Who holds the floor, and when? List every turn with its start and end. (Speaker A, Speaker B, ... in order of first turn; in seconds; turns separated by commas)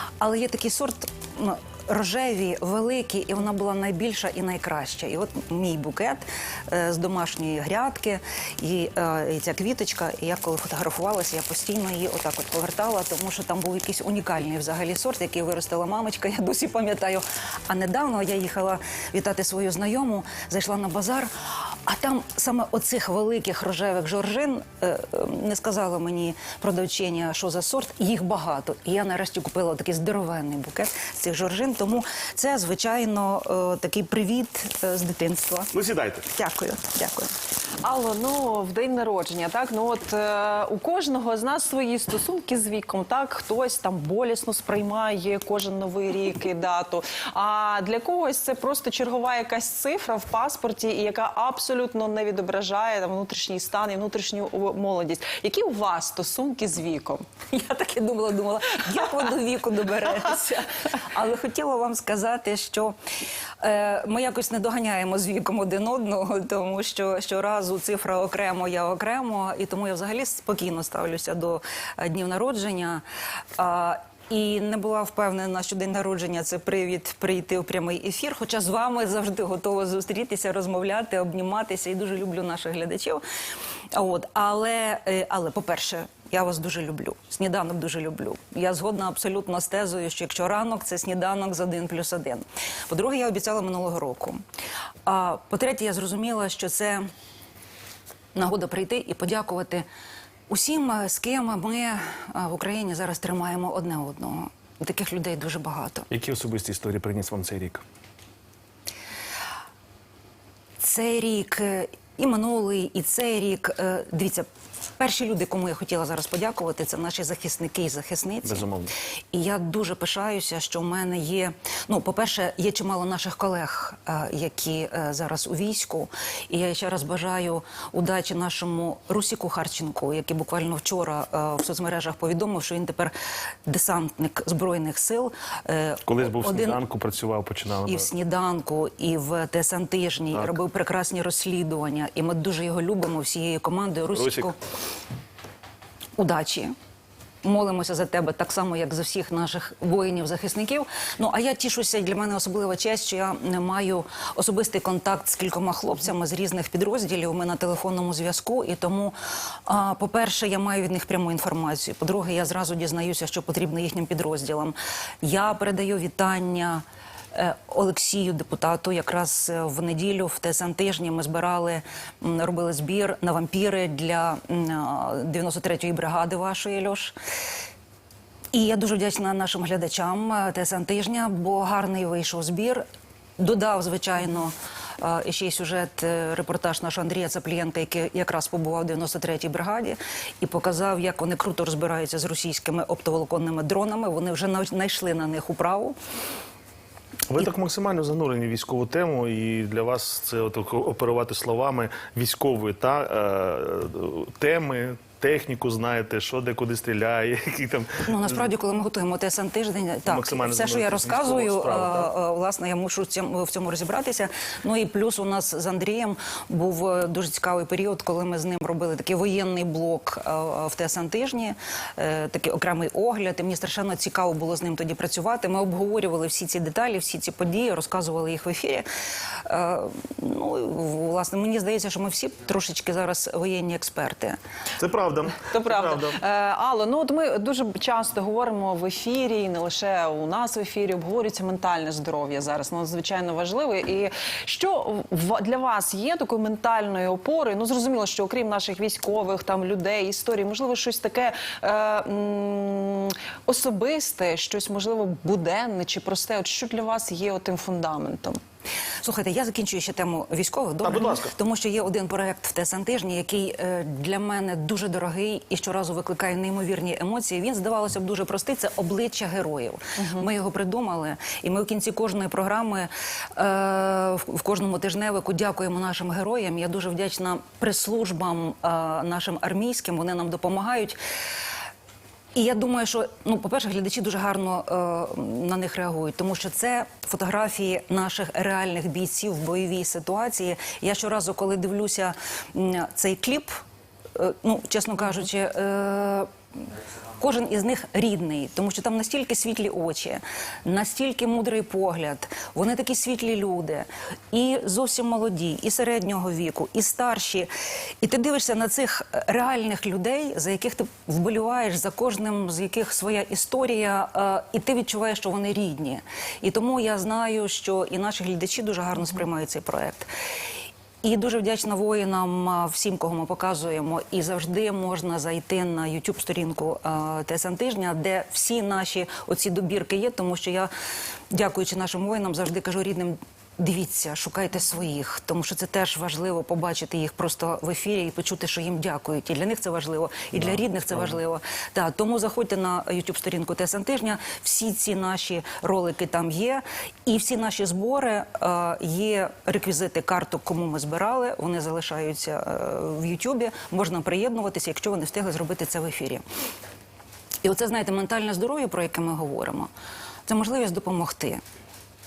Speaker A: 0.2-21.3, Speaker A: 21.9-35.7, Speaker B: 35.7-36.2, Speaker A: 36.3-37.3, Speaker C: 37.8-57.2, Speaker A: 57.5-63.0, Speaker A: 63.6-73.0, Speaker A: 73.6-83.2, Speaker A: 83.9-94.4, Speaker A: 95.1-97.0, Speaker A: 98.3-99.8, Speaker A: 100.5-106.1, Speaker B: 106.1-107.8, Speaker A: 110.8-114.5, Speaker A: 115.0-118.7, Speaker B: 118.5-118.9, Speaker A: 119.3-133.1, Speaker A: 133.7-136.8, Speaker B: 136.1-138.1, Speaker A: 137.9-144.6, Speaker B: 144.1-144.5, Speaker A: 146.2-146.7, Speaker A: 147.4-159.2, Speaker A: 159.7-177.1, Speaker A: 178.5-182.8, Speaker A: 183.4-196.0, Speaker B: 197.3-208.4, Speaker A: 208.1-228.8, Speaker B: 210.1-212.1, Speaker A: 229.5-234.4, Speaker B: 234.8-236.2, Speaker C: 235.5-258.4, Speaker A: 259.0-281.0, Speaker B: 260.9-261.3, Speaker C: 270.0-270.2, Speaker A: 282.4-293.5, Speaker A: 294.2-296.3, Speaker A: 297.2-307.5, Speaker A: 308.0-320.1, Speaker A: 321.0-330.7, Speaker A: 331.3-356.2, Speaker B: 340.3-341.2, Speaker A: 357.4-359.7, Speaker A: 360.3-361.4